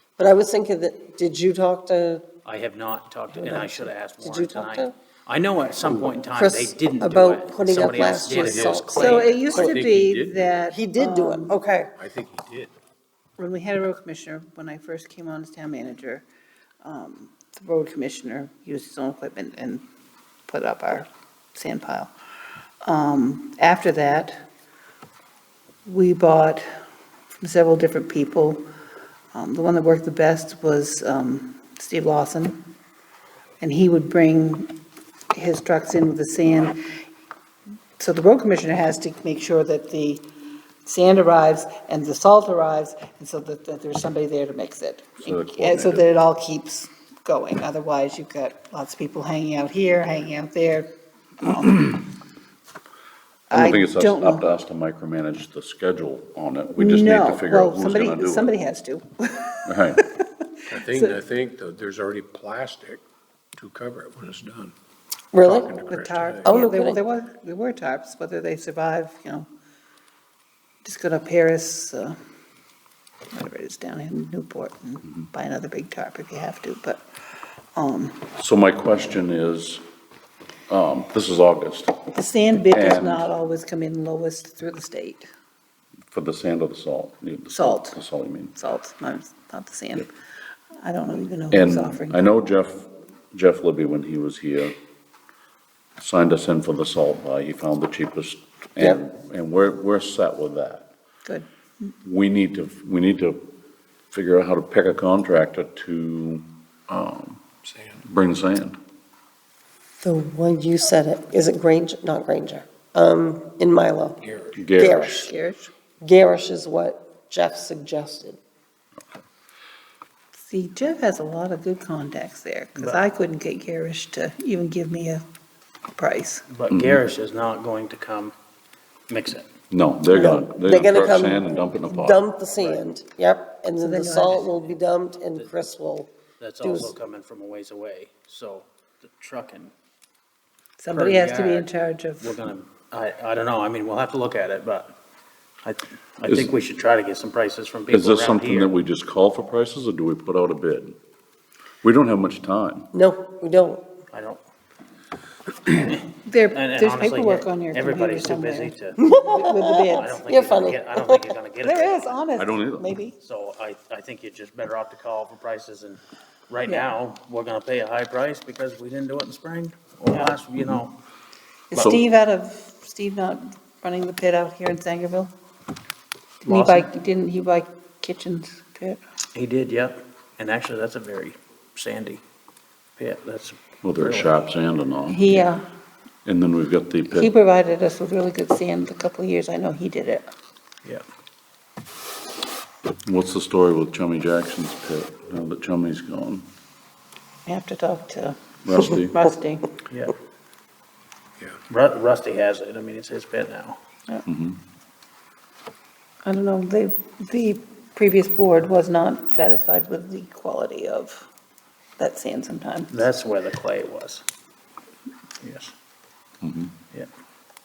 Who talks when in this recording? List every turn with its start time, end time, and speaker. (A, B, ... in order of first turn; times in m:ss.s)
0:00.2-0:02.2 A
0:02.4-0:09.5 B
0:03.3-0:04.9 A
0:06.3-0:09.8 A
0:08.4-0:11.5 C
0:08.4-0:08.7 D
0:09.5-0:10.5 D
0:10.7-0:11.9 A
0:12.0-0:12.7 D
0:13.4-0:16.2 C
0:16.8-0:19.8 C
0:20.5-0:22.1 C
0:22.8-0:24.4 C
0:25.8-0:26.6 C
0:27.3-0:28.6 C
0:29.3-0:32.6 C
0:33.6-0:34.8 C
0:35.3-0:36.8 C
0:38.0-0:40.2 C
0:40.8-0:50.9 C
0:45.2-0:46.2 E
0:51.4-0:52.0 C
0:53.5-0:54.4 C
0:53.5-0:58.6 E
0:56.8-1:01.2 C
0:59.6-1:00.0 E
1:00.7-1:03.0 D
1:03.6-1:04.7 D
1:05.3-1:05.7 A
1:05.4-1:09.5 C
1:05.5-1:06.5 D
1:06.4-1:07.0 A
1:10.8-1:12.2 C
1:13.3-1:17.0 C
1:17.8-1:18.3 C
1:18.4-1:19.8 E
1:20.7-1:22.1 E
1:22.1-1:25.3 C
1:22.7-1:23.3 E
1:26.1-1:28.6 E
1:27.5-1:28.0 C
1:28.6-1:30.1 C
1:30.8-1:32.3 C
1:31.5-1:34.8 E
1:36.0-1:40.9 E
1:42.0-1:43.5 E
1:44.1-1:47.4 E
1:48.0-1:48.8 E
1:50.0-1:54.2 A
1:54.5-1:55.2 E
1:54.8-1:55.3 A
1:55.2-1:55.7 C
1:56.0-1:58.4 A
2:00.5-2:05.2 C
2:06.0-2:06.4 C
2:06.5-2:08.3 B
2:06.7-2:07.0 E
2:09.1-2:09.5 B
2:09.7-2:12.2 E
2:10.1-2:16.1 A
2:13.8-2:14.4 C
2:16.4-2:19.7 B
2:16.6-2:16.9 A
2:20.8-2:22.4 C
2:20.9-2:21.7 B
2:22.2-2:24.9 B
2:25.6-2:28.7 B
2:26.3-2:26.5 E
2:27.9-2:31.0 E
2:31.8-2:32.9 E
2:32.9-2:33.8 A
2:34.1-2:34.4 B
2:35.7-2:36.0 B
2:36.2-2:40.1 C
2:36.5-2:39.0 B
2:39.0-2:41.3 A
2:39.9-2:42.2 B
2:41.6-2:43.1 C
2:42.4-2:43.0 E
2:43.2-2:50.9 B
2:51.7-2:55.3 C
2:51.7-2:52.0 E
2:56.4-2:56.9 B
2:56.4-2:59.0 C
2:59.3-3:02.2 B
3:03.0-3:04.4 B
3:03.8-3:05.5 E
3:05.1-3:05.6 C
3:06.2-3:07.3 E
3:07.1-3:10.3 C
3:13.0-3:16.5 E
3:17.4-3:18.4 C
3:18.6-3:19.2 E
3:19.0-3:19.7 C
3:19.9-3:20.1 B
3:21.7-3:23.8 B
3:24.2-3:24.6 E
3:26.2-3:31.3 C
3:32.0-3:32.9 C
3:32.9-3:34.2 B
3:35.4-3:35.7 B
3:36.4-3:36.7 E